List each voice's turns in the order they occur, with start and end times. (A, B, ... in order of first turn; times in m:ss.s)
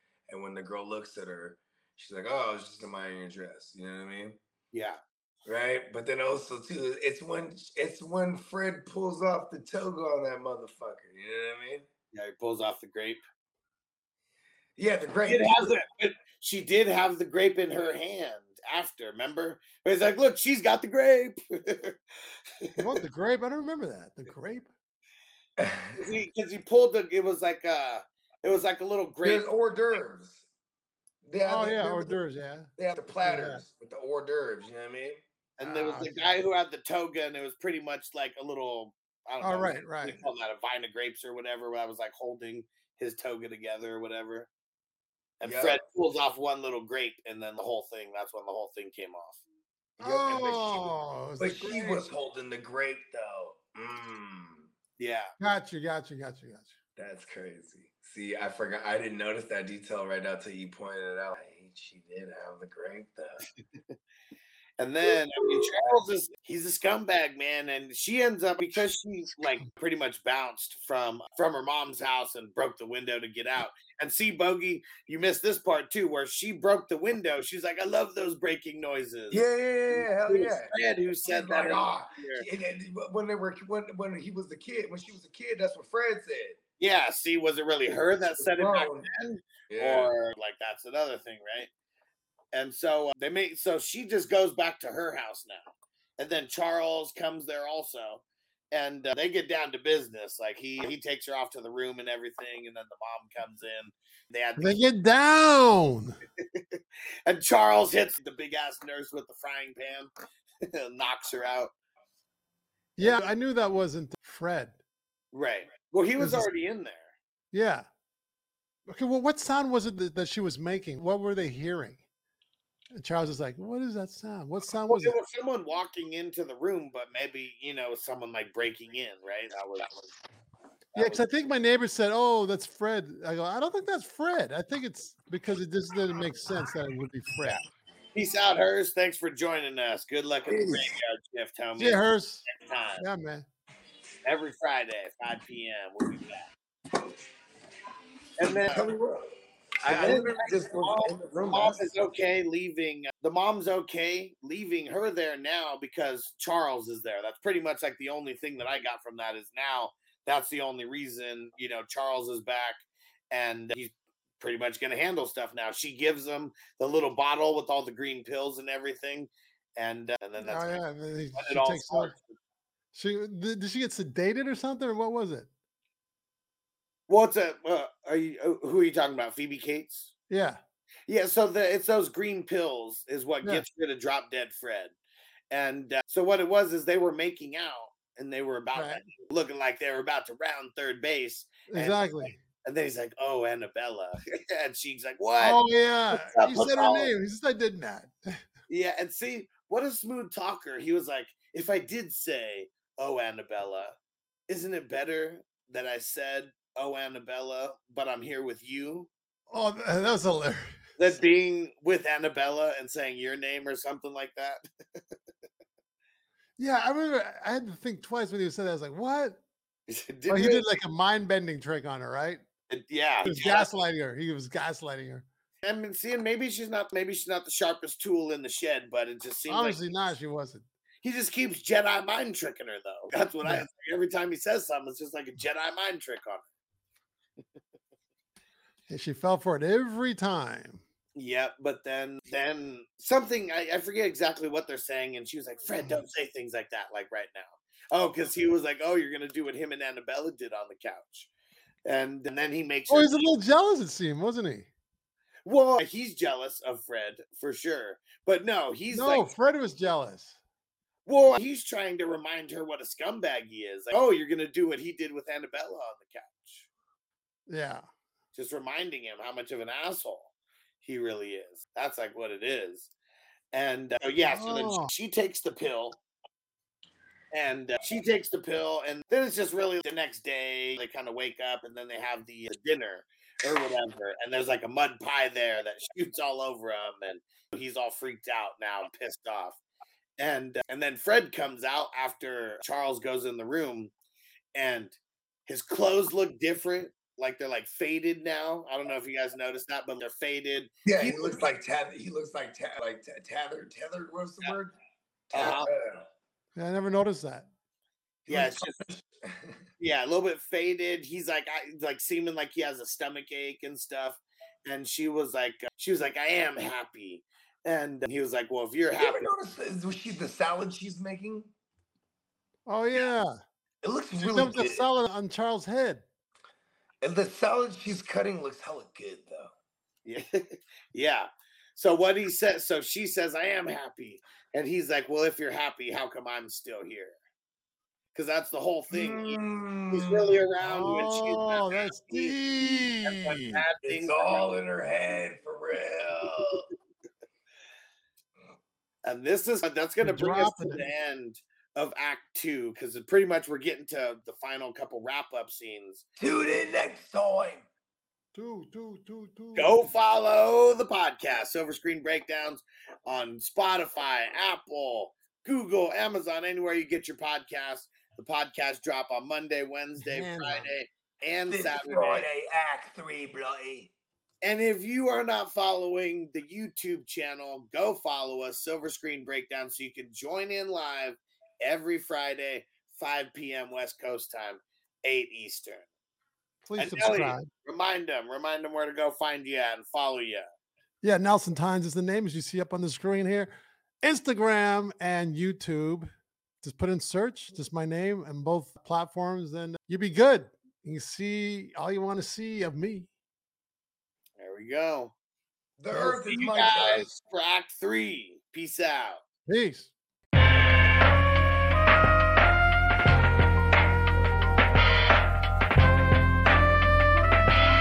0:00.3-0:04.4 A
0:04.7-0:05.0 B
0:05.4-0:11.8 A
0:12.1-0:13.2 B
0:14.8-0:15.7 A
0:15.3-0:22.0 B
0:22.8-0:24.7 C
0:25.6-0:26.0 A
0:26.0-0:29.4 B
0:29.2-0:30.4 A
0:31.2-0:32.2 A
0:31.4-0:32.7 C
0:32.8-0:35.2 A
0:33.2-0:33.6 C
0:35.6-0:44.5 B
0:35.6-0:36.3 C
0:39.4-0:40.2 C
0:45.4-0:49.4 B
0:45.4-0:45.8 A
0:50.0-0:54.7 A
0:50.0-0:52.1 C
0:55.0-0:55.3 B
0:55.4-0:56.7 C
0:57.0-1:03.4 A
1:04.8-1:19.4 B
1:19.3-1:26.6 A
1:20.3-1:22.4 B
1:26.8-1:31.7 B
1:28.4-1:29.1 A
1:29.7-1:30.1 A
1:32.5-1:44.8 B
1:44.6-1:46.2 C
1:46.4-1:50.1 B
1:50.6-1:51.7 B
1:53.0-1:54.8 C
1:53.0-1:53.2 B
1:55.3-1:57.1 B
1:56.2-1:56.5 C
1:57.5-1:57.9 C
1:58.9-2:02.0 C
2:02.9-2:05.2 C
2:04.9-2:10.1 B
2:10.9-2:11.2 B
2:10.9-2:17.6 C
2:18.1-2:23.0 B
2:20.6-2:20.8 C
2:21.8-2:23.5 C
2:24.2-2:26.5 B
2:28.4-2:28.9 B
2:28.4-2:29.3 A
2:29.8-2:31.8 A
2:29.8-2:42.8 B
2:43.3-2:50.8 B
2:50.4-2:52.1 C
2:51.3-2:52.4 B
2:52.9-2:55.5 C
2:57.1-3:00.1 B
3:00.3-3:00.6 C
3:01.1-3:04.9 B
3:05.5-3:17.1 B
3:08.7-3:09.1 C
3:11.7-3:12.4 C
3:15.4-3:18.4 C
3:18.7-3:23.9 B
3:24.5-3:29.1 B
3:29.5-3:30.8 C
3:31.0-3:34.6 B
3:36.6-3:39.4 C
3:39.9-3:40.6 B
3:40.3-3:42.4 C
3:42.7-3:43.7 B
3:43.2-3:45.2 C
3:45.6-3:49.8 B
3:49.5-3:50.6 C
3:51.0-3:56.4 B
3:58.9-4:00.8 C
4:01.2-4:11.3 B
4:11.8-4:13.3 B
4:12.9-4:14.7 C
4:15.4-4:19.3 B
4:18.9-4:20.4 C
4:21.0-4:26.7 B
4:27.5-4:27.9 C
4:28.3-4:32.9 B
4:33.5-4:36.0 B
4:34.2-4:34.9 C
4:37.3-4:49.6 B
4:50.2-4:53.9 B
4:54.5-4:55.0 B
4:55.5-5:01.3 B
5:00.8-5:04.7 A
5:05.3-5:06.1 A
5:05.3-5:05.7 B
5:06.6-5:07.5 C
5:08.3-5:08.9 B
5:08.3-5:09.5 A
5:09.8-5:19.2 B
5:19.0-5:21.5 A
5:22.6-5:23.4 C
5:23.8-5:24.8 A
5:24.2-5:26.0 C
5:27.0-5:29.5 A
5:30.0-5:37.2 B
5:38.1-5:39.4 B
5:38.9-5:40.4 A
5:39.9-5:42.4 B
5:40.6-5:43.6 C
5:43.0-5:44.6 B
5:43.8-5:46.7 A
5:49.0-5:56.0 B
5:50.0-5:50.8 C
5:56.2-5:57.6 A
5:58.3-5:59.8 C
5:59.6-6:12.3 B
6:10.0-6:10.7 C
6:11.5-6:13.9 A
6:14.4-6:25.8 B
6:26.6-6:27.5 C
6:26.8-6:30.4 B
6:31.0-6:36.1 C
6:36.6-6:43.1 C
6:44.4-6:45.1 B
6:45.8-6:47.1 A
6:45.9-6:49.2 B
6:49.5-6:49.9 C